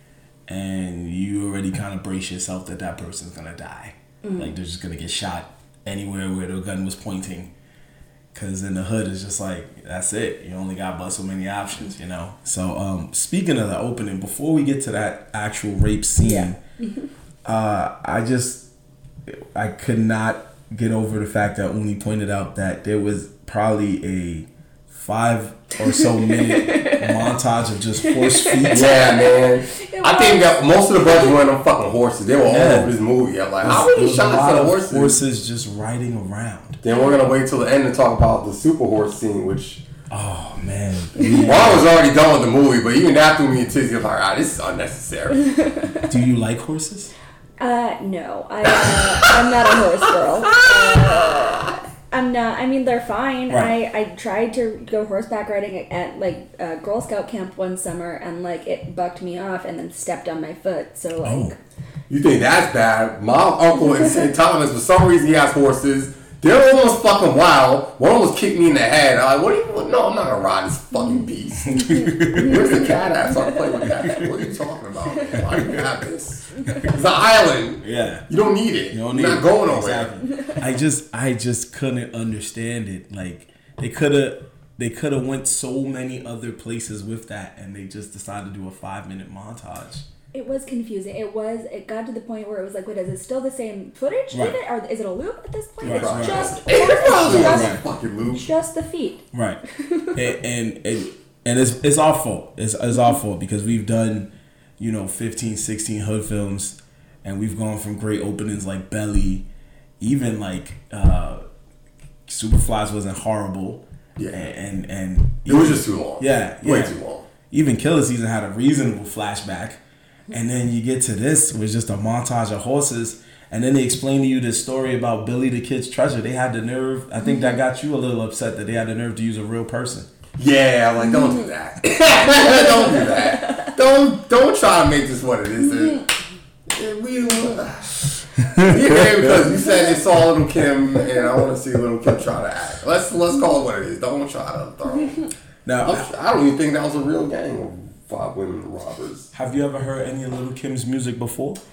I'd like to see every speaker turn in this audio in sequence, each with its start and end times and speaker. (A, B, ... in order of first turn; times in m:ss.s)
0:00.5-0:07.5 A
0:04.2-0:04.5 B
0:08.3-0:16.6 A
0:16.2-0:17.1 B
0:17.4-0:18.7 A
0:19.3-0:29.0 A
0:25.8-0:27.3 B
0:28.0-0:31.3 B
0:28.7-0:35.2 C
0:32.5-0:32.9 A
0:33.6-0:36.8 A
0:36.8-0:39.8 C
0:36.9-0:37.2 B
0:40.1-0:41.9 A
0:41.2-0:45.5 C
0:45.4-0:46.1 B
0:46.1-0:47.1 A
0:47.6-1:01.6 B
0:48.9-0:49.3 C
0:50.2-0:51.8 C
0:53.5-0:53.7 A
1:01.2-1:01.5 A
1:02.1-1:20.2 C
1:11.6-1:13.0 A
1:11.7-1:13.9 B
1:13.8-1:14.4 A
1:15.4-1:15.9 A
1:16.6-1:16.9 B
1:17.8-1:18.3 A
1:18.9-1:30.0 A
1:20.3-1:20.6 B
1:30.3-1:40.2 B
1:34.3-1:34.6 A
1:35.8-1:37.8 A
1:35.8-1:38.5 C
1:39.3-1:39.6 A
1:40.1-1:49.5 A
1:50.0-1:51.4 A
1:52.3-1:57.0 A
1:54.2-1:54.4 C
1:55.4-1:57.3 C
1:57.5-1:59.8 A
2:00.3-2:10.1 A
2:10.4-2:16.1 C
2:12.4-2:13.7 B
2:16.7-2:25.3 C
2:18.5-2:19.2 A
2:25.6-2:26.1 A
2:25.8-2:29.3 C
2:29.3-2:31.6 A